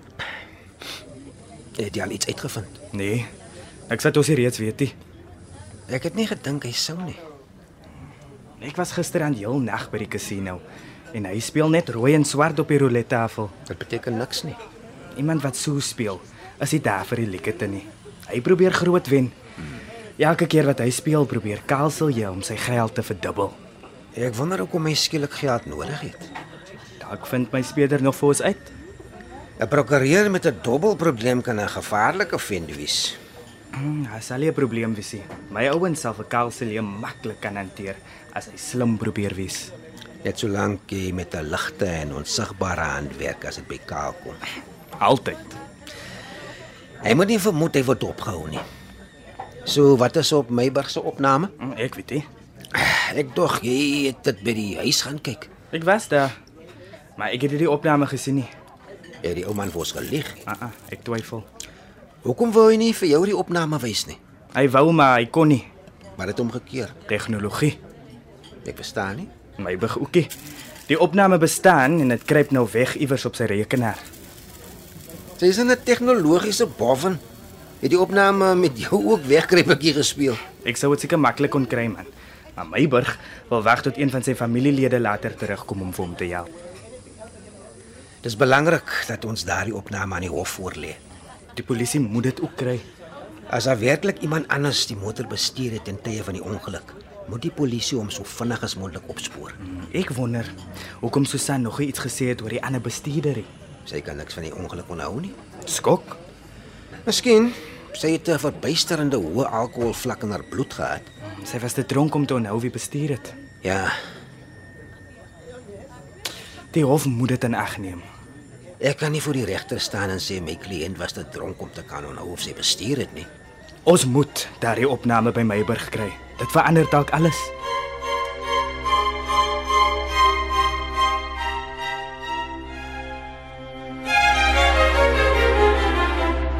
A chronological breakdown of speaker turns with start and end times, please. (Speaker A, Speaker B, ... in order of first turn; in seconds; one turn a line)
Speaker A: 1.8-2.8
Speaker B: 2.9-3.3
Speaker B: 3.9-4.9
Speaker A: 5.9-7.2
Speaker B: 8.6-10.6
Speaker B: 11.1-13.5
Speaker A: 13.7-14.6
Speaker B: 15.2-19.3
Speaker B: 20.2-23.6
Speaker A: 24.1-26.3
Speaker B: 27.0-28.7
Speaker A: 29.6-33.2
Speaker B: 33.7-39.7
Speaker A: 40.2-44.4
Speaker B: 45.0-45.5
Speaker A: 47.0-48.6
Speaker A: 49.6-51.5
Speaker B: 51.6-52.2
Speaker A: 52.7-55.5
Speaker B: 55.7-56.4
Speaker B: 57.2-58.5
Speaker A: 59.2-60.4
Speaker B: 60.5-61.4
Speaker A: 62.2-64.2
Speaker B: 64.5-65.7
Speaker A: 66.2-66.9
Speaker B: 67.1-67.8
Speaker A: 68.6-69.3
Speaker B: 69.6-70.3
Speaker B: 70.9-74.0
Speaker A: 75.4-77.2
Speaker A: 77.8-80.4
Speaker B: 80.6-86.5
Speaker A: 88.2-91.0
Speaker B: 91.5-92.8
Speaker A: 93.5-99.5
Speaker B: 99.6-103.5
Speaker A: 103.9-105.3
Speaker B: 105.7-106.2
Speaker A: 107.0-111.0
Speaker B: 111.2-113.3
Speaker A: 113.6-113.9
Speaker B: 116.7-118.0
Speaker A: 118.8-123.3
Speaker B: 123.8-127.5